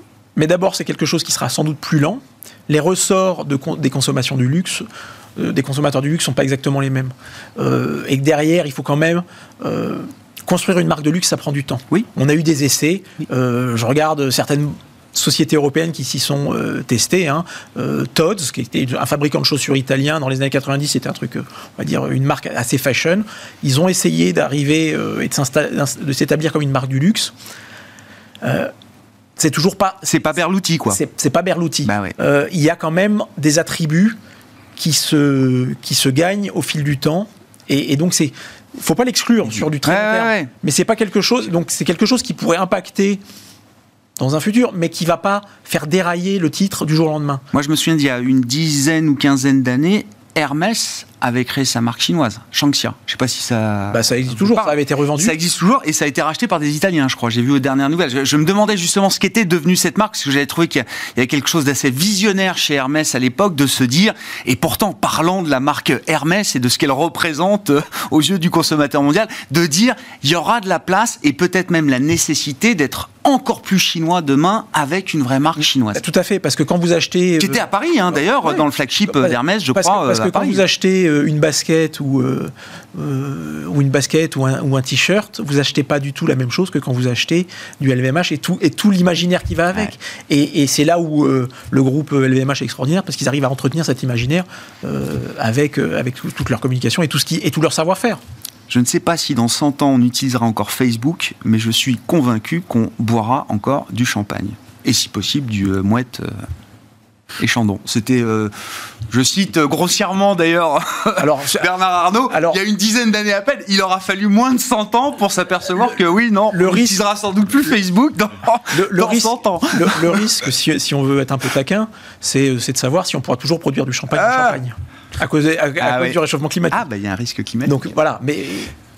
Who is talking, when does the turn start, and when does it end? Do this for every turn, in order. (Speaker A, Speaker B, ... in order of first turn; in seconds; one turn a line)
Speaker A: 0.4-4.9
Speaker A: 5.4-27.3
Speaker A: 28.4-28.7
Speaker A: 29.4-34.2
Speaker B: 30.1-31.0
Speaker B: 31.9-32.1
Speaker A: 34.8-43.2
Speaker B: 39.4-40.5
Speaker A: 44.2-47.4
Speaker B: 47.5-76.0
Speaker A: 53.9-55.4
Speaker A: 75.9-77.6
Speaker B: 77.4-80.6
Speaker A: 78.2-98.2
Speaker B: 98.7-106.5
Speaker B: 107.4-108.5
Speaker B: 109.1-120.4
Speaker A: 111.2-111.7
Speaker A: 112.3-112.6
Speaker A: 116.5-117.0
Speaker A: 118.7-126.8
Speaker B: 124.1-124.6
Speaker B: 125.8-126.2
Speaker B: 126.7-127.9
Speaker A: 127.7-128.7